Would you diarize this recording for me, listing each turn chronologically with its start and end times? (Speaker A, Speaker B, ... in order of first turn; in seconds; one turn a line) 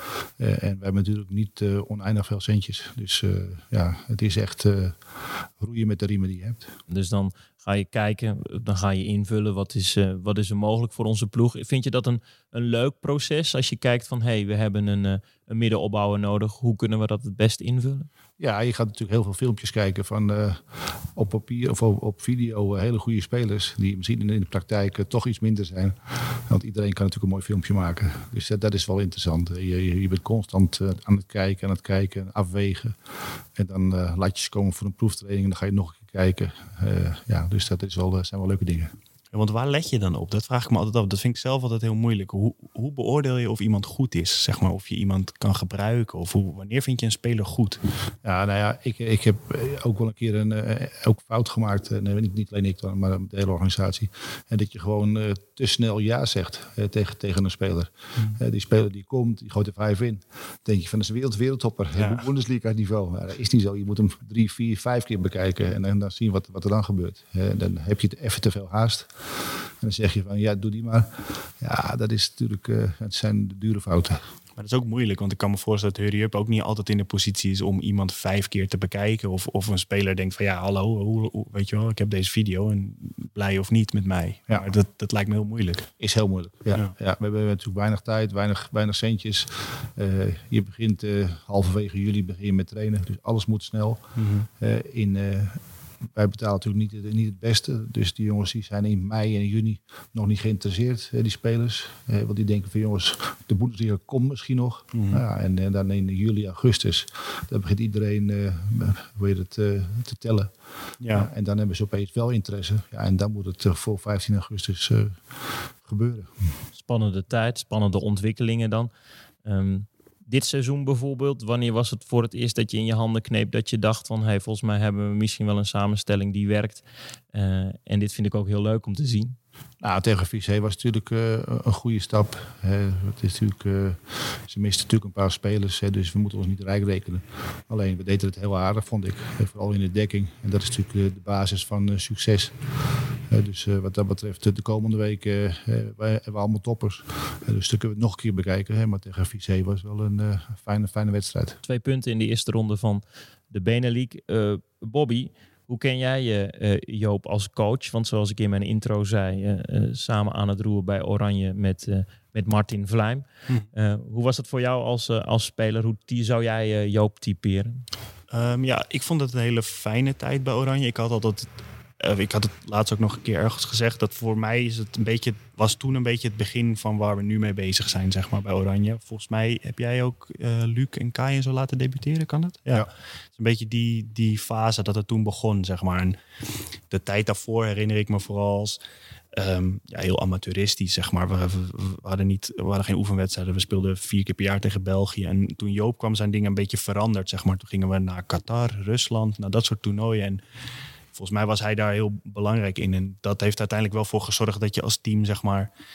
Speaker A: 0.4-6.7
Speaker B: 6.9-18.1
Speaker A: 18.4-33.0
Speaker A: 33.5-38.9
Speaker C: 39.3-47.8
Speaker A: 48.2-74.2
Speaker C: 62.0-62.3
Speaker C: 74.6-85.9
Speaker A: 86.0-94.0
Speaker C: 94.2-94.5
Speaker A: 94.6-95.6
Speaker A: 96.2-110.5
Speaker C: 104.9-105.2
Speaker C: 111.0-111.3
Speaker A: 111.1-116.3
Speaker B: 116.8-118.9
Speaker B: 119.5-129.4
Speaker A: 129.8-142.6
Speaker A: 143.3-151.6
Speaker B: 151.7-167.8
Speaker C: 168.3-171.5
Speaker C: 172.0-186.2
Speaker C: 186.9-188.8
Speaker C: 189.3-200.4
Speaker C: 201.1-205.7